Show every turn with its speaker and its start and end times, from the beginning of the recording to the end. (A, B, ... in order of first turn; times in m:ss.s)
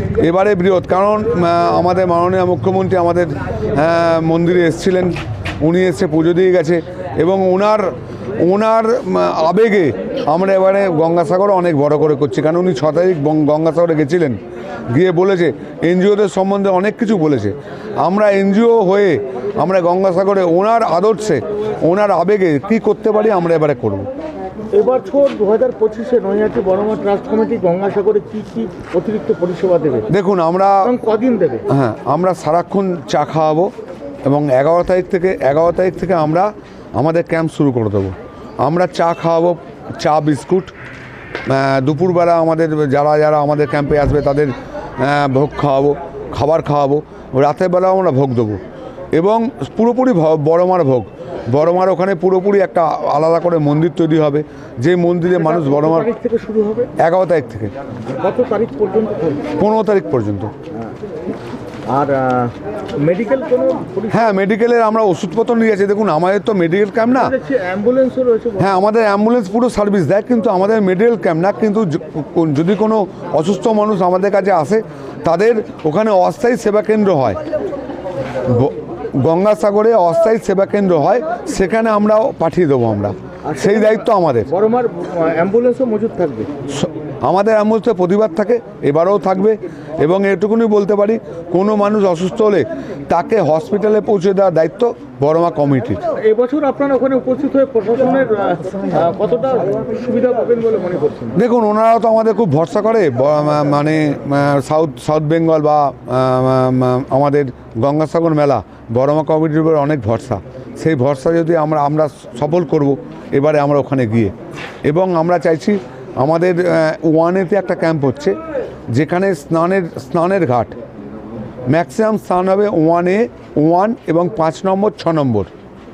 0:00.2-0:14.4 A
0:14.9-0:24.1 A
0:24.7-0:30.1 B
0:30.1-0:30.9 A
0:30.8-0:31.6 B
0:31.7-0:33.7 A
0:34.3-0:40.7 A
0:41.5-0:48.6 A
0:49.1-0:56.1 A
0:55.4-0:56.9 B
0:57.0-0:57.7 A
0:58.2-0:59.5 B
0:59.6-1:00.5 A
1:01.9-1:04.4 B
1:04.1-1:07.3 A
1:07.2-1:08.7 B
1:08.6-1:17.4 A
1:18.5-1:24.5 A
1:23.5-1:26.5 B
1:26.7-1:36.0 A
1:36.2-1:41.4 B
1:41.4-1:54.3 A
1:54.9-1:58.4 A
1:58.9-2:00.7 A
2:01.7-2:05.5 A